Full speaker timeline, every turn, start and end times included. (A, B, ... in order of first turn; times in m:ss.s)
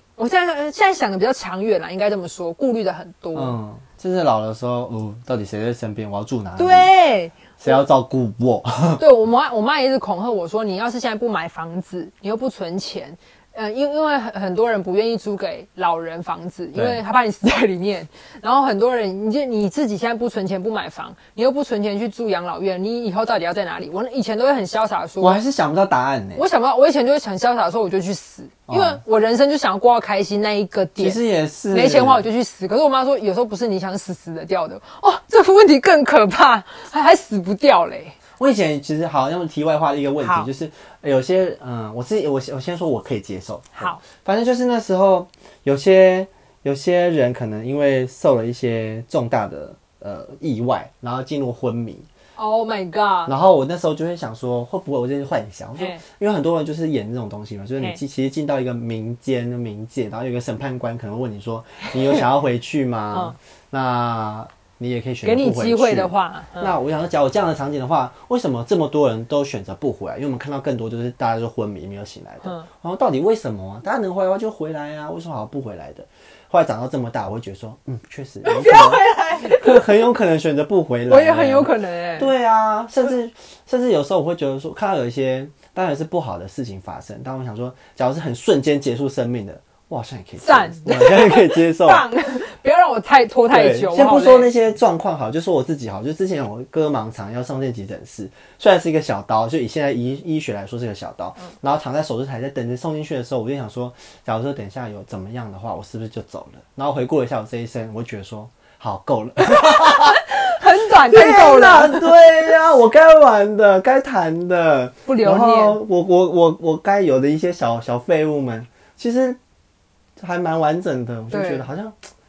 0:00.2-0:03.6 A
0:03.4-0:06.9 B
0:06.6-0:07.8 A
0:07.6-0:09.0 B
0:09.0-0:25.4 A
0:16.7-0:17.0 B
0:25.2-0:26.4 B
0:26.4-0:31.2 A
0:28.7-0:29.0 B
0:31.0-0:32.2 B
0:31.7-0:38.2 A
0:38.4-0:52.1 B
0:40.2-0:40.5 A
0:43.8-0:44.0 A
0:52.4-0:53.3 A
0:53.3-1:32.1 B
1:05.2-1:06.8 A
1:18.4-1:20.0 A
1:21.1-1:22.3 A
1:30.4-1:34.5 A
1:33.5-1:50.2 B
1:49.4-1:52.2 A
1:51.1-1:59.4 B
1:55.1-1:55.8 A
2:00.2-2:02.0 B
2:01.3-2:01.7 A